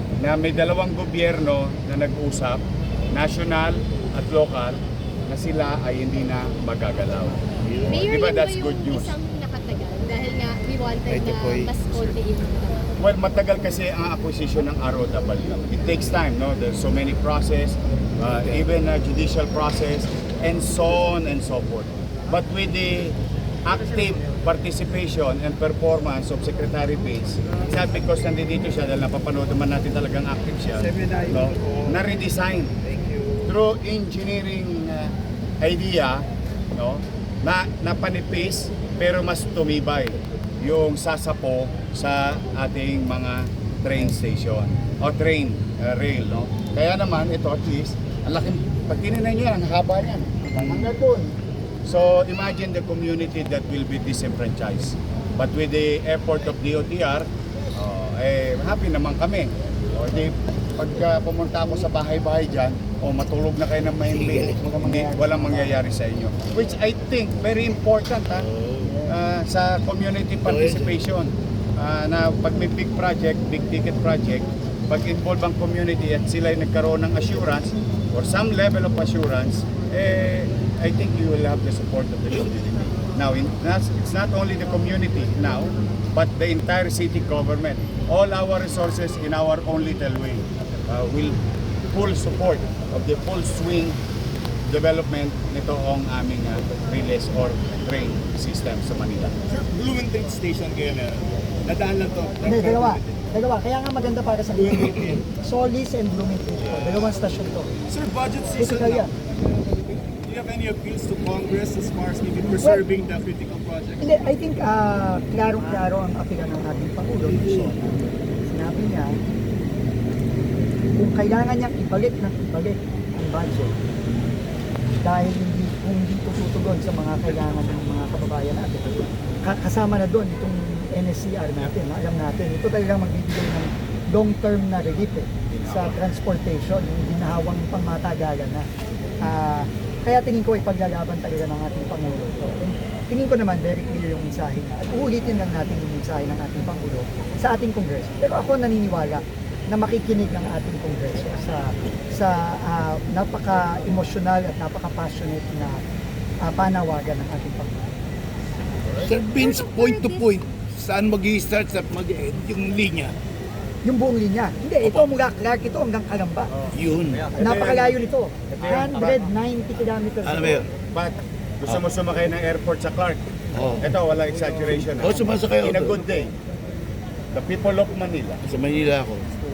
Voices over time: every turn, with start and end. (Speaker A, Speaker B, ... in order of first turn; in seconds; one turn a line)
Speaker A: 0.2-9.2
Speaker B: 7.6-8.0
Speaker C: 7.8-12.9
Speaker B: 11.1-11.7
Speaker A: 13.0-32.8
Speaker D: 30.8-31.8
Speaker D: 32.9-33.3
Speaker A: 33.4-68.5
Speaker B: 64.0-64.6
Speaker E: 64.5-65.8
Speaker B: 68.3-69.1
Speaker A: 69.0-94.0
Speaker B: 70.4-71.0
Speaker A: 94.7-99.3
Speaker D: 99.5-103.3
Speaker E: 102.4-107.7
Speaker D: 104.5-105.2
Speaker D: 107.9-109.1
Speaker E: 108.6-109.1
Speaker D: 109.7-114.2
Speaker E: 112.5-112.8
Speaker E: 114.0-117.8
Speaker E: 118.5-119.2
Speaker E: 121.0-123.7
Speaker E: 125.0-138.7
Speaker A: 135.5-135.9
Speaker E: 139.2-155.8
Speaker E: 156.4-157.8
Speaker B: 159.0-163.2
Speaker C: 159.1-160.3
Speaker E: 163.8-166.6
Speaker B: 164.8-165.2
Speaker A: 166.5-168.0
Speaker B: 166.7-167.3
Speaker E: 167.3-170.7
Speaker A: 168.6-169.2
Speaker B: 170.2-170.7
Speaker A: 170.9-173.2
Speaker B: 173.5-174.0
Speaker A: 173.8-176.3
Speaker B: 174.6-176.0
Speaker A: 177.3-178.4
Speaker B: 178.4-179.3